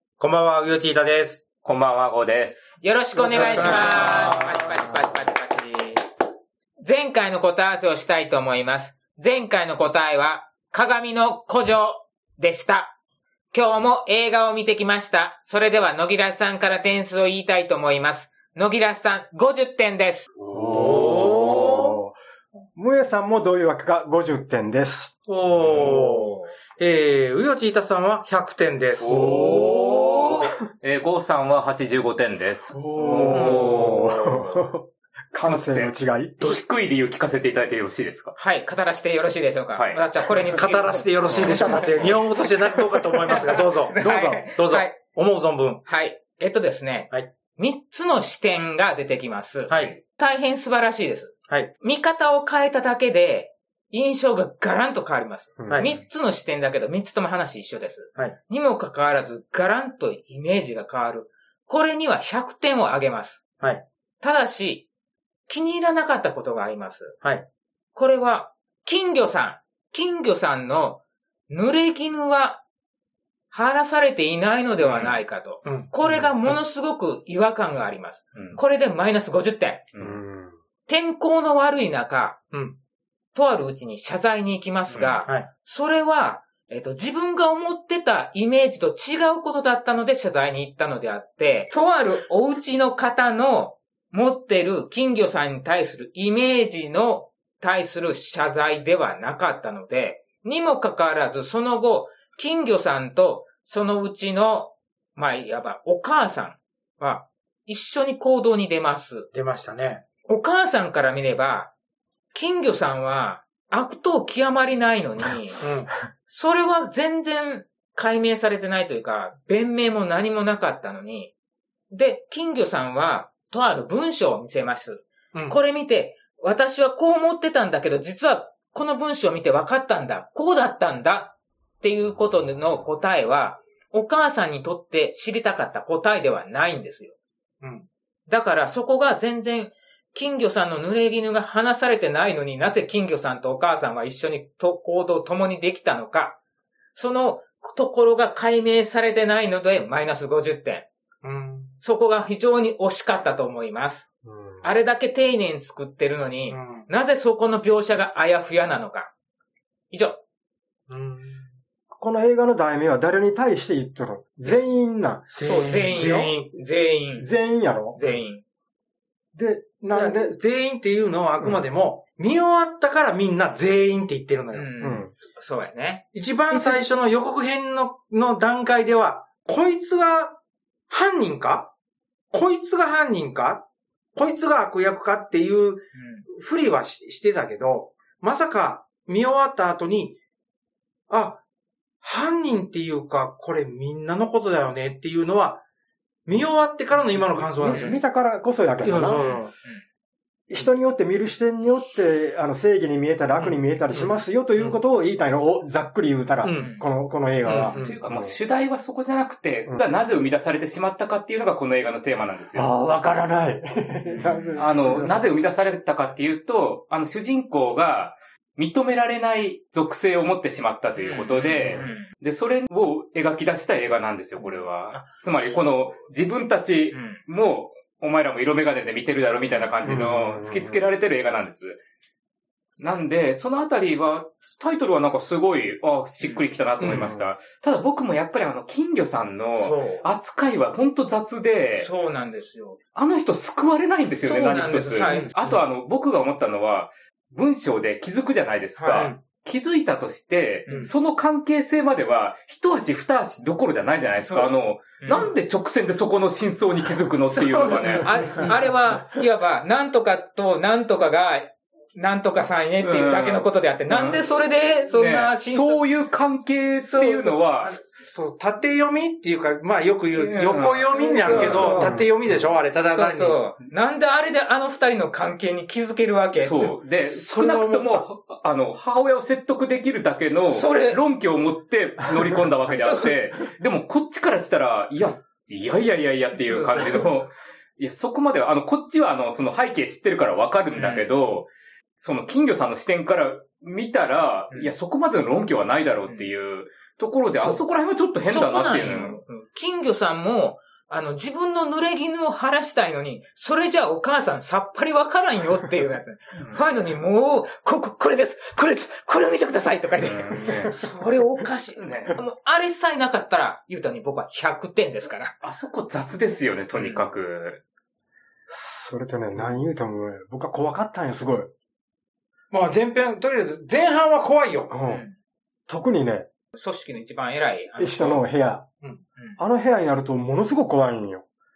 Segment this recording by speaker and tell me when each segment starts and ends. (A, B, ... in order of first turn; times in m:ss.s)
0:00.2-0:01.4 A
0:01.6-0:02.8 B
0:02.8-0:06.0 C
0:03.2-0:04.6 D
0:03.2-0:04.7 A
0:03.3-0:04.2 B
0:06.8-0:12.9 C
0:13.5-0:20.3 C
0:20.5-0:22.2 D
0:20.5-0:22.0 A
0:22.8-0:25.2 D
0:25.3-0:29.8 A
0:25.6-0:26.5 C
0:29.0-0:34.2 B
0:29.1-0:30.5 D
0:29.6-0:29.9 C
0:32.7-0:36.6 D
0:33.3-0:34.0 C
0:33.3-0:34.0 A
0:35.3-0:38.4 B
0:38.4-0:42.3 C
0:39.8-0:40.0 B
0:40.5-0:45.8 A
0:41.2-0:42.2 B
0:43.2-0:45.0 C
0:44.0-0:44.3 D
0:45.8-1:03.4 C
0:49.7-0:50.0 A
0:55.6-0:55.9 D
0:55.7-0:56.0 A
1:04.2-1:04.9 C
1:05.5-1:07.2 C
1:08.0-1:12.6 C
1:13.5-1:19.9 C
1:14.8-1:15.2 B
1:15.6-1:15.9 A
1:18.4-1:18.6 B
1:19.9-1:20.2 B
1:20.0-1:20.6 D
1:20.9-1:22.4 C
1:22.5-1:22.8 A
1:23.4-1:49.3 C
1:24.9-1:25.2 B
1:49.3-1:50.0 A
1:50.3-1:51.7 C
1:52.3-1:55.6 C
1:55.6-1:55.9 A
1:56.3-2:01.3 C
2:01.9-2:17.2 C
2:05.3-2:05.6 A
2:17.6-2:17.9 A
2:18.3-2:26.4 C
2:27.0-2:30.9 C
2:31.2-2:31.7 A
2:31.8-2:34.1 C
2:34.2-2:34.7 D
2:34.6-2:39.1 C
2:36.5-2:36.9 A
2:39.9-2:40.2 C
2:40.9-2:41.5 A
2:41.9-2:45.9 D
2:45.3-2:46.5 A
2:45.4-2:47.3 C
2:47.2-2:48.0 D
2:48.0-2:48.4 C
2:49.4-2:50.4 D
2:49.9-2:54.7 A
2:54.5-2:56.8 C
2:54.8-2:55.1 D
2:56.1-3:00.4 A
3:00.9-3:01.7 A
3:02.3-3:10.2 A
3:06.0-3:06.3 C
3:11.1-3:11.4 A
3:12.0-3:15.6 A
3:16.3-3:18.0 A
3:17.2-3:19.3 D
3:17.6-3:18.0 C
3:18.8-3:19.5 A
3:19.1-3:19.8 C
3:20.5-3:28.4 D
3:26.4-3:26.8 A
3:26.5-3:26.9 C
3:27.4-3:28.0 A
3:27.7-3:32.7 B
3:32.5-3:35.3 D
3:34.1-3:34.6 C
3:34.6-3:51.8 B
3:41.0-3:42.1 C
3:46.9-3:47.2 C
3:49.8-3:50.9 D
3:52.8-4:01.9 B
3:56.8-3:57.1 A
3:56.9-3:57.3 D
3:59.6-4:00.1 C
4:01.8-4:02.8 C
4:03.0-4:18.6 B
4:04.2-4:05.6 C
4:08.8-4:09.1 C
4:10.7-4:10.9 C
4:14.2-4:15.3 C
4:17.3-4:25.8 C
4:22.8-4:24.2 B
4:24.9-4:27.8 B
4:26.8-4:27.4 C
4:27.9-4:33.4 A
4:30.1-4:32.0 C
4:30.5-4:31.9 B
4:32.9-4:36.7 C
4:36.4-4:59.2 B
4:37.0-4:38.1 A
4:40.5-4:41.0 C
4:42.8-4:43.1 C
4:46.4-4:47.1 C
4:50.8-4:51.1 C
4:58.2-5:15.4 C
5:06.4-5:06.6 B
5:10.0-5:10.9 B
5:11.8-5:12.2 B
5:15.4-5:17.6 B
5:16.7-5:17.1 C
5:18.5-5:21.5 D
5:22.5-5:24.7 A
5:24.7-5:25.0 D
5:24.9-5:25.2 C
5:25.7-5:26.3 D
5:26.5-5:28.2 C
5:27.8-5:28.6 D
5:29.4-5:31.2 D